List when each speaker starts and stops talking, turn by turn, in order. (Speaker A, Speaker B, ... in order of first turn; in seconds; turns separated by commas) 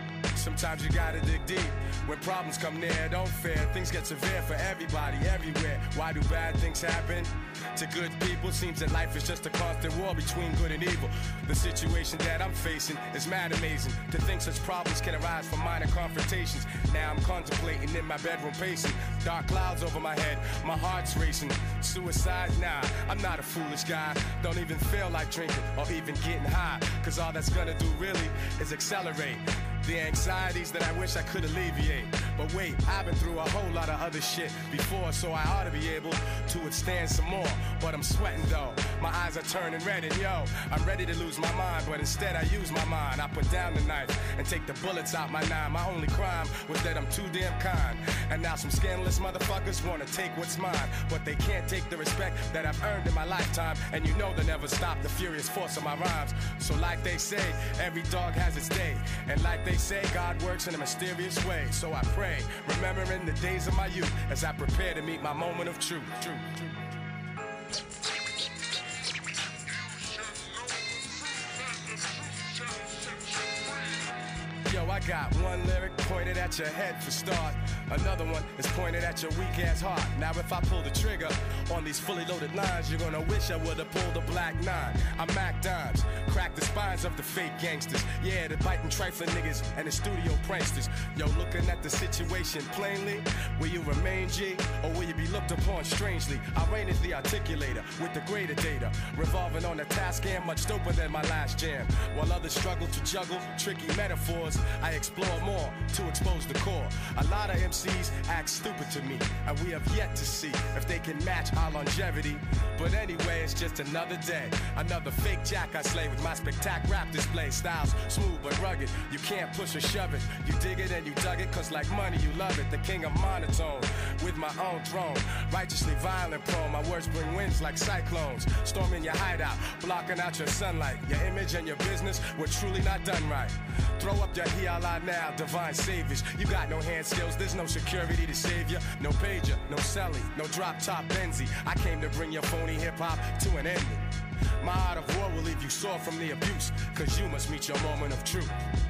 Speaker A: 0.3-66.8, Speaker A: 69.7-74.1, Speaker A: 74.7-148.6